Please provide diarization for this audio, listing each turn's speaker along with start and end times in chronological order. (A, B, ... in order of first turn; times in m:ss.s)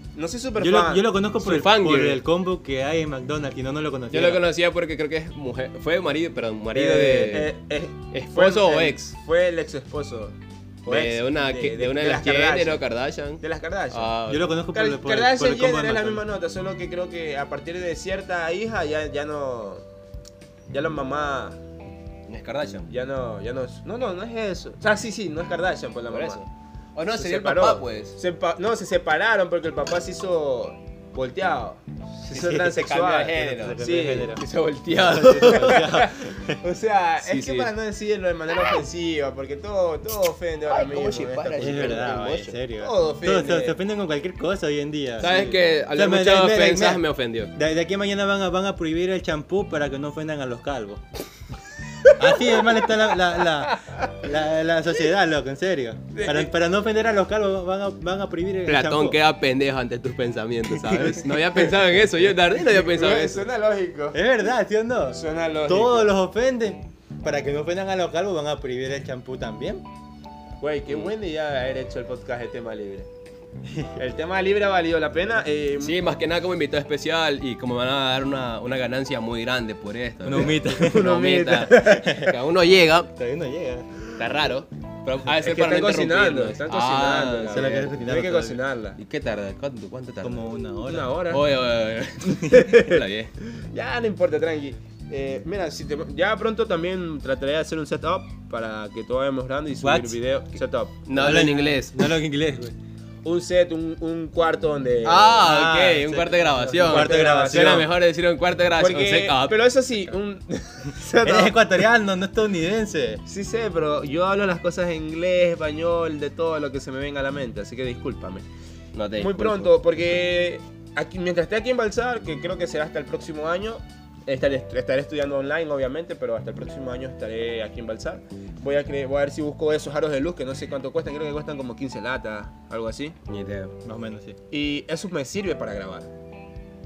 0:00.1-0:01.1 A
0:00.6-0:04.4 B
0:01.4-0:02.2 C
0:04.1-0:07.5 C
0:06.7-0:12.8 A
0:08.1-0:09.1 C
0:10.8-0:14.5 C
0:13.4-0:14.1 A
0:14.3-0:16.2 B
0:14.7-0:19.8 A
0:20.7-0:21.6 A
0:22.3-0:22.9 C
0:22.9-0:26.4 A
0:26.1-0:28.2 C
0:27.1-0:34.4 A
0:32.3-0:32.7 B
0:32.5-0:35.9 C
0:33.3-0:34.4 B
0:35.0-0:36.6 B
0:35.4-0:42.0 A
0:37.2-0:37.7 C
0:40.7-0:42.6 C
0:41.4-0:47.0 B
0:42.8-0:43.8 A
0:45.2-0:45.6 A
0:45.2-0:47.5 C
0:47.5-0:51.0 B
0:52.1-0:59.2 B
0:56.1-0:56.5 A
0:58.6-1:03.5 C
1:02.6-1:04.2 A
1:04.1-1:09.8 B
1:05.1-1:06.1 A
1:10.6-1:13.1 A
1:14.0-1:16.0 A
1:15.8-1:23.1 C
1:20.2-1:21.0 B
1:20.4-1:22.1 A
1:22.0-1:22.3 B
1:23.1-1:23.9 B
1:24.2-1:27.9 C
1:25.4-1:29.0 A
1:27.5-1:28.6 B
1:29.0-1:30.4 C
1:30.2-1:31.1 B
1:30.9-1:31.4 A
1:31.3-1:33.3 C
1:32.5-1:33.0 A
1:33.7-1:41.4 A
1:39.8-1:40.2 B
1:41.1-1:42.1 C
1:41.2-1:42.7 B
1:43.2-1:46.1 A
1:45.0-1:49.6 C
1:45.4-1:47.9 B
1:46.7-1:47.9 A
1:48.8-1:51.6 A
1:51.2-1:53.2 B
1:53.3-1:58.4 A
1:58.9-1:59.8 C
1:59.2-2:13.2 A
2:13.2-2:13.7 C
2:13.8-2:14.4 B
2:14.5-2:16.1 A